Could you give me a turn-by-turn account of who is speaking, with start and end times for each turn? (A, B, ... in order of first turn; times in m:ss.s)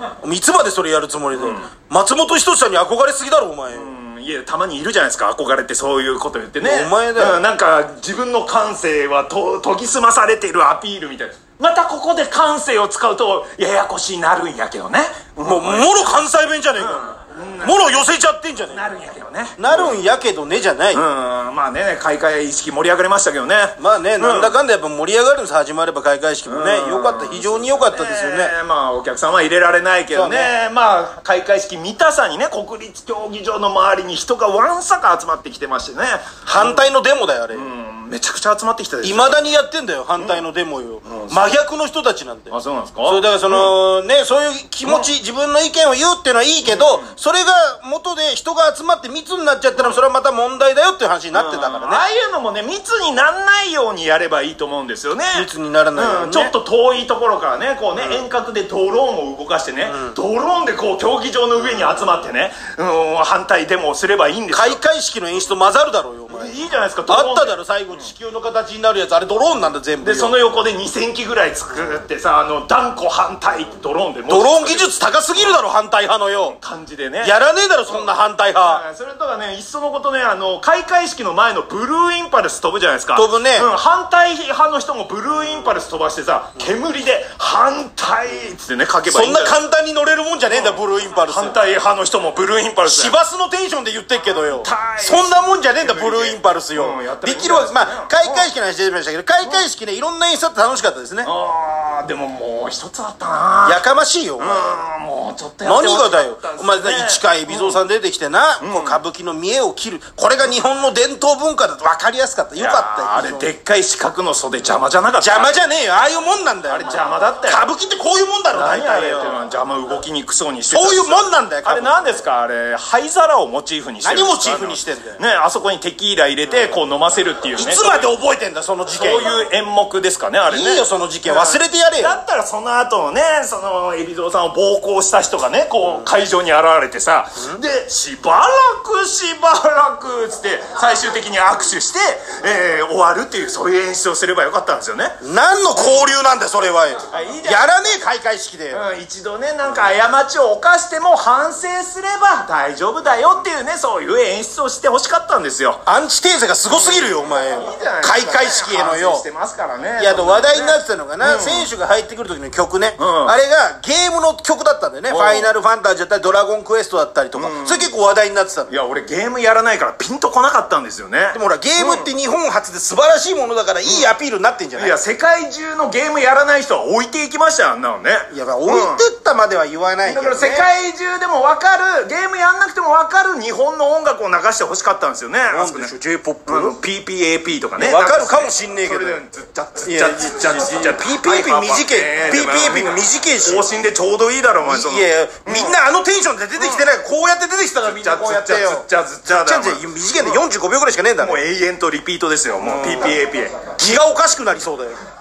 0:00.2-0:03.9 A
0:01.3-0:01.7 B
0:03.7-0:16.1 B
0:06.6-0:07.4 A
0:15.4-0:18.9 A
0:16.8-0:18.1 B
0:18.7-0:20.0 B
0:19.6-0:21.0 A
0:20.9-0:24.6 B
0:23.8-0:28.5 A
0:26.4-0:36.9 B
0:30.1-0:30.5 A
0:36.5-0:37.7 A
0:37.5-0:39.4 B
0:39.0-0:52.0 A
0:40.2-0:40.4 B
0:41.0-0:41.5 B
0:42.5-0:43.8 B
0:44.8-0:45.1 B
0:46.6-0:47.1 B
0:49.8-0:50.0 B
0:51.3-1:04.8 B
0:55.3-0:56.5 A
0:57.9-0:58.2 A
0:59.8-1:00.1 A
1:04.5-1:10.3 A
1:06.3-1:08.1 B
1:10.0-1:15.6 B
1:14.3-1:16.6 A
1:16.4-1:17.4 B
1:17.2-1:18.8 A
1:17.9-1:29.6 B
1:23.2-1:23.7 A
1:29.1-1:31.6 A
1:30.5-1:33.2 B
1:32.8-1:41.3 A
1:34.5-1:38.5 B
1:41.2-1:43.8 B
1:43.6-1:44.8 A
1:44.4-1:47.8 B
1:45.6-1:53.5 A
1:48.6-1:49.0 B
1:52.6-1:55.6 B
1:55.2-1:59.4 A
1:56.7-1:57.6 B
1:58.5-2:08.1 B
2:00.7-2:02.0 A
2:04.0-2:05.2 A
2:06.5-2:06.8 A
2:07.6-2:09.4 A
2:08.9-2:25.2 B
2:10.5-2:12.2 A
2:25.2-2:28.8 A
2:25.7-2:26.1 B
2:27.1-2:27.9 B
2:28.7-2:35.8 B
2:35.8-2:39.2 A
2:36.6-2:41.7 B
2:40.0-2:48.7 A
2:43.0-2:43.4 B
2:45.1-2:45.5 B
2:47.3-2:47.9 B
2:48.7-2:52.1 B
2:51.3-2:55.0 A
2:53.8-2:54.1 B
2:54.7-2:59.0 B
2:58.3-3:00.7 A
3:00.0-3:05.9 B
3:05.5-3:06.8 A
3:06.4-3:15.8 B
3:07.8-3:09.2 A
3:09.8-3:13.7 A
3:14.6-3:21.4 A
3:16.6-3:16.9 B
3:17.8-3:20.4 B
3:21.2-3:24.0 B
3:22.6-3:23.2 A
3:23.8-3:25.0 A